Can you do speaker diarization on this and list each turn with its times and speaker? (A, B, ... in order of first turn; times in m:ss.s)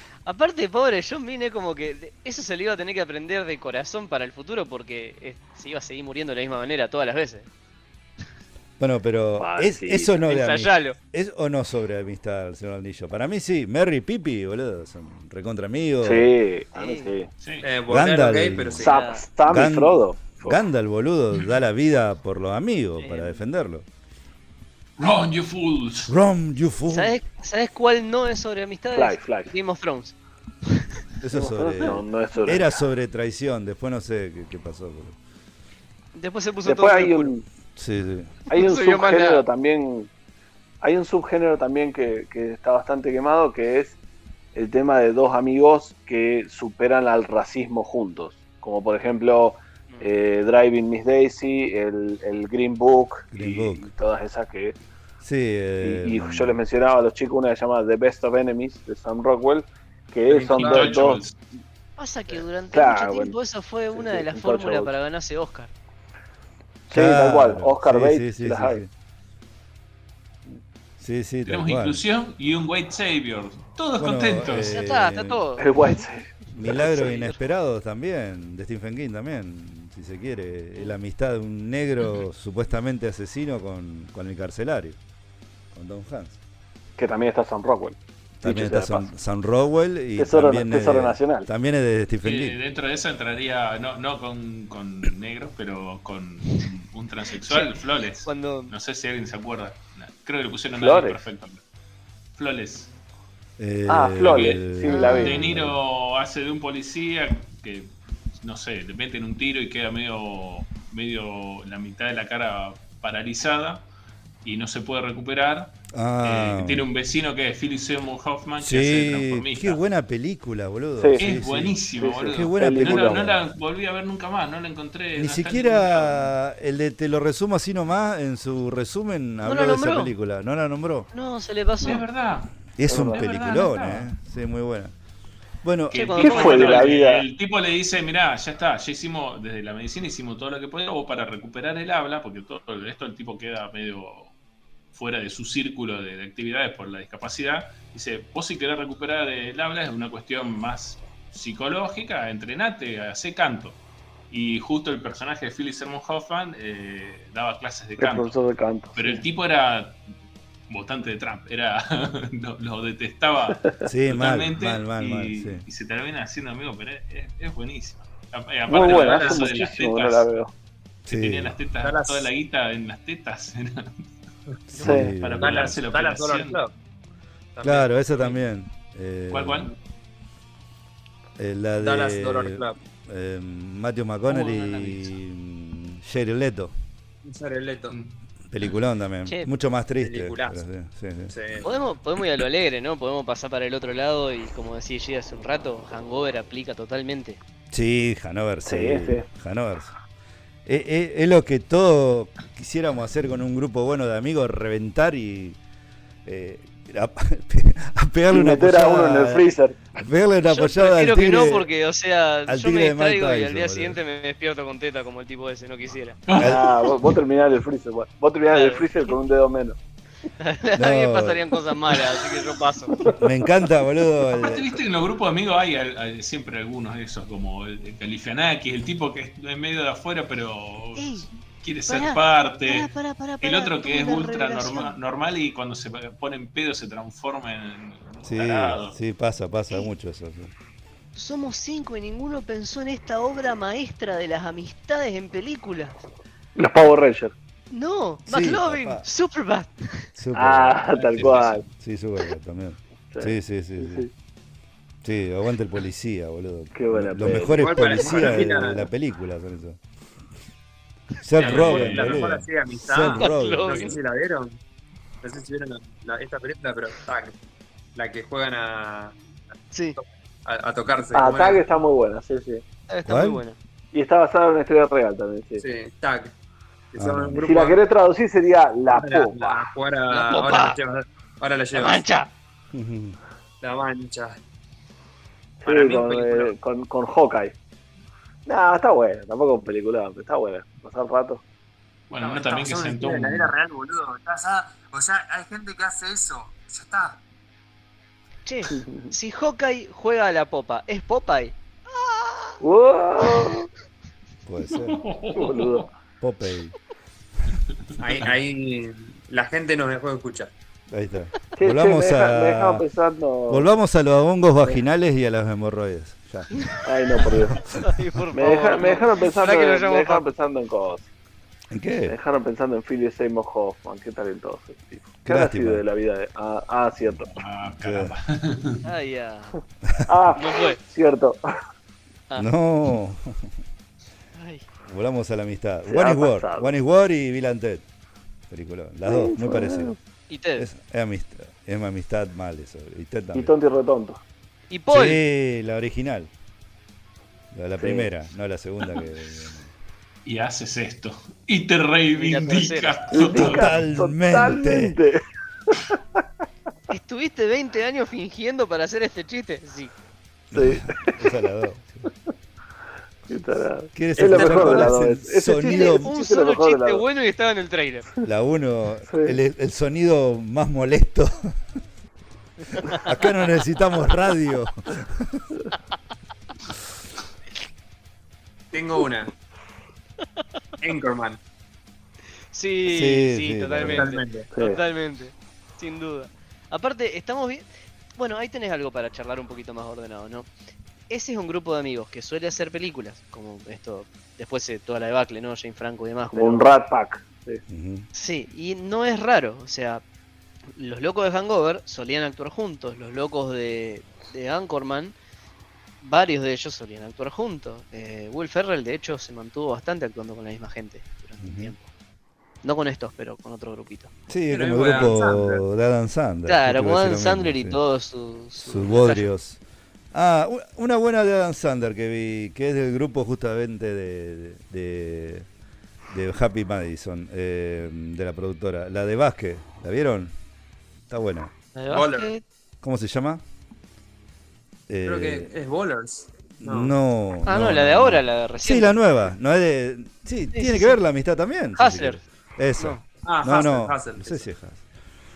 0:00.3-0:07.5 A
0:08.8-0:16.3 B
0:09.4-0:10.1 C
0:10.2-0:11.0 A
0:16.0-0:17.3 C
0:16.8-0:17.1 A
0:17.6-0:18.9 D
0:17.9-0:18.9 B
0:18.8-0:19.2 A
0:18.8-0:20.6 C
0:19.4-0:23.9 B
0:23.0-0:23.4 A
0:25.0-0:26.1 E
0:26.1-0:27.2 B
0:26.9-0:30.9 A
0:29.0-0:29.5 C
0:31.2-0:35.2 B
0:31.3-0:32.8 C
0:36.1-0:37.3 A
0:36.7-0:37.4 C
0:37.8-0:38.4 B
0:38.5-0:40.1 C
0:38.5-0:39.4 A
0:40.8-0:44.0 C
0:44.6-0:54.8 C
0:53.3-0:53.9 B
0:55.2-0:56.6 B
0:55.8-1:01.2 C
1:00.3-1:01.4 E
1:00.4-1:01.0 D
1:02.0-1:05.7 A
1:02.7-1:03.4 C
1:03.9-1:04.9 C
1:06.9-1:08.8 C
1:06.9-1:08.9 B
1:11.0-1:12.0 B
1:11.5-1:14.8 E
1:14.0-1:15.4 B
1:14.6-1:16.0 A
1:15.6-1:17.0 C
1:16.6-1:25.0 B
1:16.7-1:17.4 A
1:25.7-1:26.4 B
1:27.0-1:29.1 C
1:28.4-1:32.6 B
1:30.2-1:31.5 C
1:32.2-1:41.6 E
1:37.5-1:38.7 A
1:40.8-1:41.2 C
1:42.4-1:42.9 E
1:43.6-1:45.8 B
1:43.9-1:45.4 C
1:44.2-1:53.8 E
1:44.9-1:45.5 A
1:54.4-1:59.8 E
1:55.9-1:56.9 B
1:58.6-2:03.4 B
2:01.2-2:06.4 E
2:02.0-2:03.3 C
2:05.2-2:11.1 B
2:09.4-2:10.1 A
2:11.1-2:12.0 A
2:11.8-2:14.1 E
2:12.8-2:14.9 B
2:12.9-2:13.2 C
2:15.6-2:16.2 B
2:15.9-2:24.3 E
2:15.9-2:16.9 A
2:16.2-2:17.2 C
2:24.9-2:38.3 E
2:38.0-2:39.2 C
2:39.0-2:40.0 E
2:40.7-2:50.3 E
2:43.8-2:45.6 B
2:48.7-2:50.5 C
2:48.7-2:49.5 D
2:51.1-2:51.5 B
2:51.1-2:54.1 E
2:51.8-2:52.3 D
2:54.7-2:55.8 B
2:54.7-2:56.6 E
2:54.8-2:55.1 C
2:55.4-2:56.7 D
2:57.6-2:58.3 D
2:57.6-2:59.7 B
2:59.3-2:59.8 E
3:01.4-3:06.7 B
3:01.8-3:02.8 D
3:07.2-3:08.0 D
3:08.5-3:11.3 B
3:10.0-3:10.6 D
3:11.3-3:11.7 D
3:11.6-3:17.4 A
3:17.7-3:19.9 B
3:18.7-3:19.2 C
3:20.7-3:25.6 B
3:26.2-3:29.4 B
3:28.3-3:29.8 C
3:30.0-3:31.7 B
3:30.5-3:36.2 A
3:32.5-3:34.0 B
3:36.3-3:37.1 E
3:36.4-3:36.7 B
3:36.4-3:39.8 C
3:38.5-3:38.9 A
3:40.4-3:43.0 A
3:40.8-3:41.6 B
3:43.2-3:44.8 B
3:44.3-3:52.9 E
3:51.0-3:51.3 A
3:51.9-3:55.0 A
3:53.4-3:59.0 E
3:58.2-4:00.5 B
4:01.2-4:06.0 A
4:06.6-4:07.3 C
4:07.7-4:10.1 A
4:08.3-4:09.1 B
4:10.2-4:14.1 B
4:10.4-4:11.6 C
4:10.9-4:11.6 E
4:13.1-4:14.1 C
4:15.0-4:19.8 B
4:16.8-4:18.7 C
4:17.4-4:18.9 D
4:21.2-4:23.9 B
4:21.4-4:24.6 D
4:21.4-4:22.0 E
4:23.2-4:24.0 A
4:25.2-4:27.4 D
4:28.0-4:29.2 D
4:29.7-4:30.0 A
4:30.0-4:31.7 D
4:31.1-4:32.6 C
4:32.9-4:33.6 A
4:33.1-4:33.4 B
4:33.9-4:35.6 C
4:35.6-4:36.3 D
4:36.9-4:37.8 D
4:37.0-4:37.5 B
4:37.4-4:39.6 C
4:38.9-4:42.0 D
4:40.1-4:40.8 A
4:41.7-4:42.3 A
4:42.7-4:43.2 B
4:43.6-4:44.4 D
4:45.6-4:47.5 C
4:45.6-4:46.5 D
4:48.5-4:51.4 C
4:52.1-4:53.5 E
4:52.2-4:57.2 D
4:58.5-5:02.6 A
4:58.7-4:59.0 C
5:02.6-5:03.7 C
5:03.3-5:03.5 A
5:04.5-5:05.0 B
5:04.8-5:05.9 E
5:05.4-5:05.9 C
5:06.2-5:06.7 B
5:07.9-5:08.3 E
5:08.0-5:10.5 D
5:10.9-5:12.8 B
5:11.6-5:13.7 C
5:13.5-5:16.5 B
5:16.8-5:17.6 C
5:17.5-5:17.8 B
5:17.8-5:20.3 A
5:18.3-5:21.1 C
5:21.7-5:22.2 B
5:22.1-5:27.3 C
5:25.2-5:25.8 B
5:27.3-5:28.8 E
5:27.8-5:28.1 B
5:28.8-5:29.6 A
5:29.9-5:30.2 B
5:30.1-5:31.4 C
5:30.4-5:30.8 A
5:32.4-5:33.5 B
5:34.4-5:34.6 A
5:34.8-5:37.8 B
5:35.9-5:36.7 C
5:38.5-5:40.0 B
5:39.1-5:40.0 C
5:40.3-5:40.7 A
5:40.6-5:43.5 B
5:43.3-5:44.2 C
5:44.7-5:45.2 A
5:44.9-5:46.3 B
5:47.5-5:49.7 B
5:47.8-5:48.1 C
5:50.2-5:53.7 E
5:52.2-5:53.0 A
5:53.1-5:56.0 C
5:53.3-5:55.0 B
5:56.9-5:59.9 A
6:00.5-6:02.1 B
6:00.5-6:01.3 C
6:03.3-6:07.0 C
6:03.9-6:06.1 B
6:04.3-6:05.0 A
6:05.6-6:08.1 A
6:08.2-6:11.6 B
6:09.1-6:09.4 C
6:12.9-6:15.5 B
6:18.7-6:19.3 D
6:20.8-6:21.4 D
6:22.5-6:30.5 A
6:22.9-6:24.1 B
6:23.8-6:24.5 D
6:24.5-6:24.8 C
6:31.1-6:36.7 A
6:36.3-6:37.6 C
6:37.7-6:38.1 B
6:38.1-6:40.0 A
6:40.8-6:45.1 A
6:46.0-6:51.9 A
6:51.4-6:51.7 B
6:52.6-6:54.1 A
6:54.3-6:57.8 B
6:54.5-6:55.6 D
6:56.5-6:59.3 A
6:58.6-6:59.6 B
7:00.1-7:05.5 B
7:06.1-7:10.3 B
7:11.1-7:11.5 B
7:11.8-7:12.4 A
7:11.9-7:12.3 D
7:12.8-7:13.4 B
7:14.9-7:15.5 B
7:15.0-7:16.9 D
7:16.6-7:24.8 B
7:17.5-7:19.0 A
7:20.5-7:21.0 A
7:21.8-7:22.2 A
7:22.8-7:23.0 A
7:23.2-7:24.5 D